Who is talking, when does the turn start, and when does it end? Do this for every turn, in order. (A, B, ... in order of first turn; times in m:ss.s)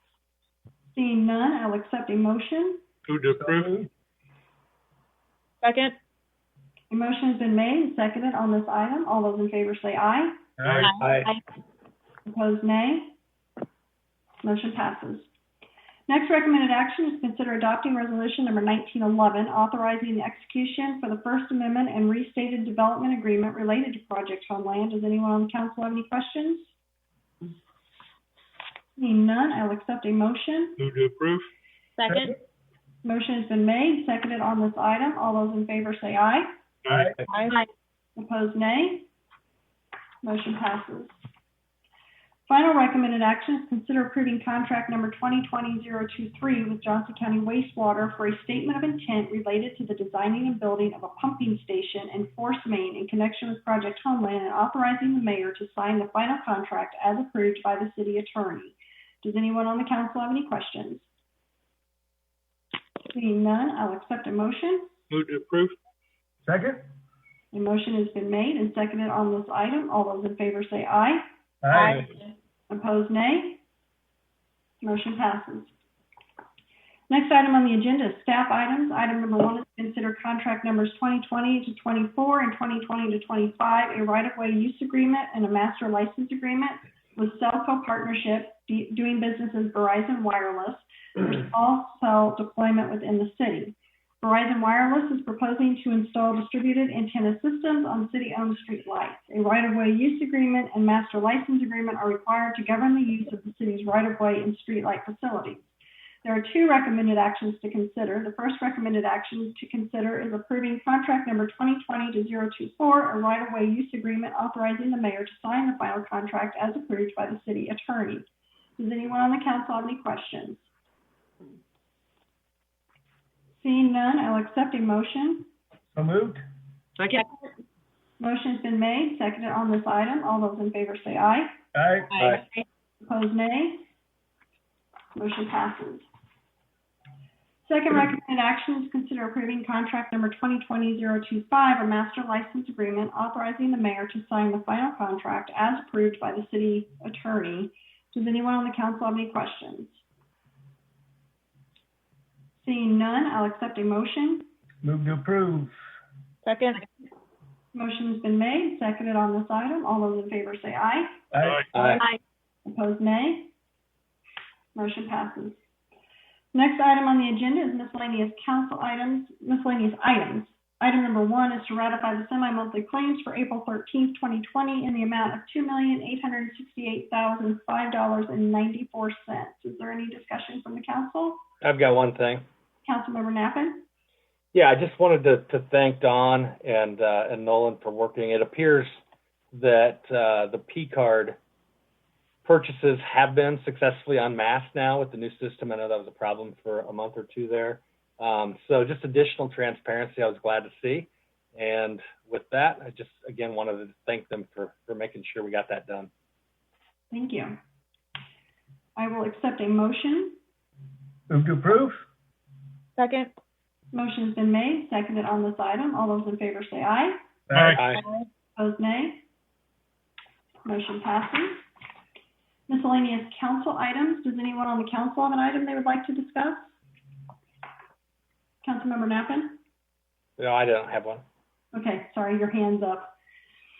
0:00.9-0:02.8 A
0:03.0-0:03.7 B
0:03.3-0:03.9 C
0:05.6-0:06.0 D
0:06.9-0:10.4 A
0:10.6-0:10.9 C
0:10.6-0:11.0 B
0:10.8-0:11.4 D
0:11.0-0:11.3 E
0:12.2-0:13.2 A
0:14.4-0:15.3 A
0:16.1-0:26.7 A
0:29.0-0:30.8 A
0:30.8-0:31.5 B
0:32.0-0:32.3 D
0:33.0-0:36.5 A
0:36.8-0:37.2 B
0:36.9-0:37.1 C
0:37.3-0:37.7 D
0:38.2-0:39.1 A
0:40.2-0:41.1 A
0:42.5-1:01.1 A
1:03.1-1:04.9 A
1:05.1-1:05.8 B
1:06.4-1:06.8 C
1:07.5-1:11.2 A
1:11.6-1:12.0 C
1:11.7-1:12.2 D
1:12.7-1:13.6 A
1:14.8-1:15.7 A
1:17.1-1:58.3 A
1:58.8-2:00.7 A
2:03.6-2:05.5 A
2:05.9-2:06.4 C
2:08.2-2:11.5 A
2:11.7-2:12.1 C
2:12.2-2:12.6 D
2:13.0-2:13.9 A
2:15.2-2:16.0 A
2:17.6-2:30.0 A
2:32.6-2:34.5 A
2:34.8-2:35.7 C
2:36.4-2:36.8 D
2:37.7-2:41.2 A
2:41.3-2:41.6 C
2:41.3-2:41.7 B
2:41.7-2:42.0 E
2:42.6-2:43.5 A
2:44.8-2:45.6 A
2:46.5-3:01.4 A
3:01.6-3:02.4 E
3:02.8-3:03.8 A
3:04.5-3:09.0 E
3:09.5-3:11.4 E
3:12.4-3:26.1 E
3:27.1-3:27.6 A
3:29.0-3:30.4 A
3:31.3-3:32.0 C
3:33.0-3:33.3 D
3:33.9-3:37.2 A
3:37.5-3:37.8 C
3:37.5-3:38.0 B
3:37.8-3:38.0 E
3:37.9-3:38.2 D
3:38.6-3:39.2 A
3:40.6-3:41.6 A
3:42.7-3:46.8 A
3:48.6-3:49.6 A
3:50.4-3:51.2 E
3:51.7-3:53.1 A